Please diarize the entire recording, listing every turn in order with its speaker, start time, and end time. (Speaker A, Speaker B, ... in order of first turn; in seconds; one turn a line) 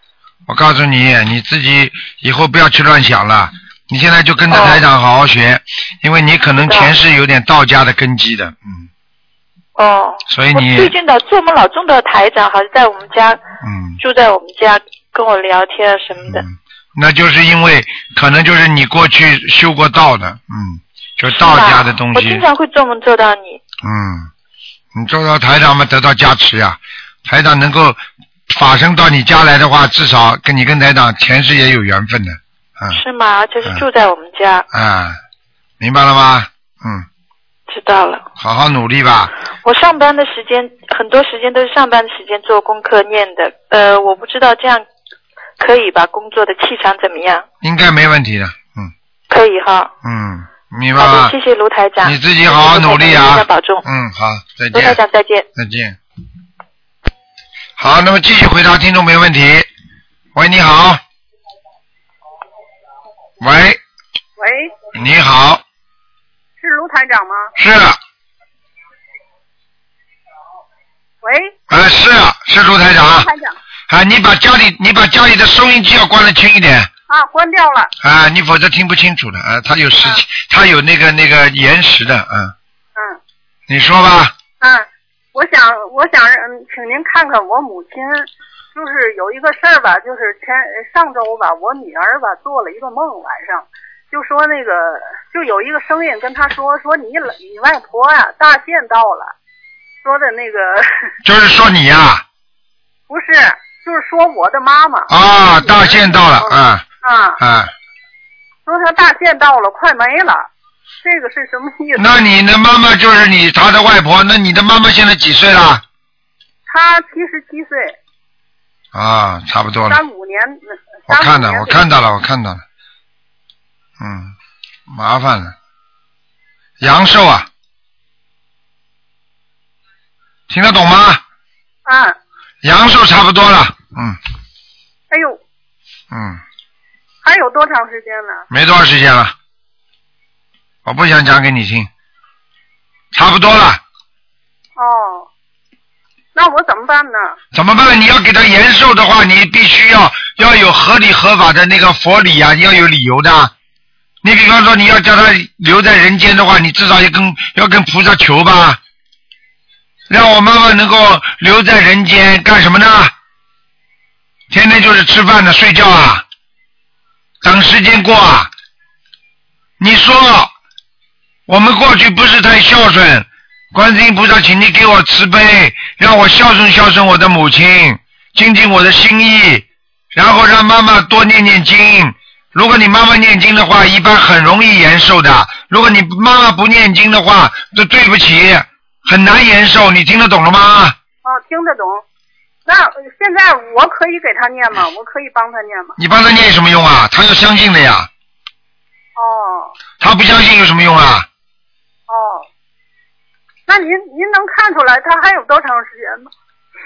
Speaker A: 0.5-8.9
Speaker B: 4.5-4.8
Speaker B: 6.5-6.9
Speaker B: 9.8-13.4
Speaker A: 10.3-10.9
Speaker A: 13.6-14.0
Speaker B: 14.0-16.4
Speaker A: 16.3-22.4
Speaker B: 21.3-23.6
Speaker A: 23.8-24.3
Speaker A: 24.9-33.0
Speaker B: 32.9-34.6
Speaker A: 34.7-35.2
Speaker A: 35.8-37.0
Speaker B: 37.7-38.3
Speaker A: 38.4-39.3
Speaker B: 39.6-44.9
Speaker B: 45.6-47.4
Speaker A: 47.6-48.9
Speaker B: 49.3-49.9
Speaker A: 50.0-51.3
Speaker B: 51.0-53.8
Speaker A: 52.0-55.0
Speaker B: 54.7-55.5
Speaker A: 55.5-56.0
Speaker A: 57.8-59.7
Speaker A: 60.3-61.0
Speaker A: 63.4-63.8
Speaker C: 64.4-64.7
Speaker A: 64.9-65.6
Speaker C: 66.6-67.5
Speaker A: 67.6-68.0
Speaker C: 71.2-71.5
Speaker A: 71.7-73.3
Speaker C: 73.1-73.5
Speaker A: 73.9-76.9
Speaker C: 77.1-77.9
Speaker A: 78.0-82.5
Speaker C: 82.9-83.2
Speaker A: 83.7-84.3
Speaker C: 84.6-99.3
Speaker C: 100.0-101.1
Speaker A: 101.2-102.2
Speaker C: 103.1-107.4
Speaker A: 105.1-106.8
Speaker A: 107.4-107.7
Speaker C: 108.7-110.5
Speaker C: 111.0-112.1
Speaker A: 112.0-115.8
Speaker C: 116.7-118.0
Speaker A: 118.9-120.0
Speaker C: 119.8-121.9
Speaker A: 121.1-122.6
Speaker A: 124.0-124.3
Speaker A: 124.9-125.5
Speaker A: 126.8-127.5
Speaker A: 130.5-131.2
Speaker C: 131.8-132.1
Speaker A: 132.6-134.2
Speaker C: 135.1-135.4
Speaker A: 136.1-136.4
Speaker C: 137.2-138.4
Speaker A: 138.5-139.3
Speaker A: 140.8-141.9
Speaker A: 143.1-143.8
Speaker C: 144.8-145.3
Speaker C: 146.3-147.4
Speaker A: 147.5-153.5
Speaker A: 154.2-158.8
Speaker A: 160.1-163.1
Speaker A: 164.5-166.2
Speaker A: 167.4-168.5
Speaker A: 169.8-170.5
Speaker A: 171.5-190.9
Speaker C: 191.2-192.0
Speaker C: 192.7-196.0
Speaker A: 196.0-198.1
Speaker C: 199.2-199.7
Speaker A: 200.0-201.2
Speaker C: 202.1-202.5
Speaker C: 203.7-206.3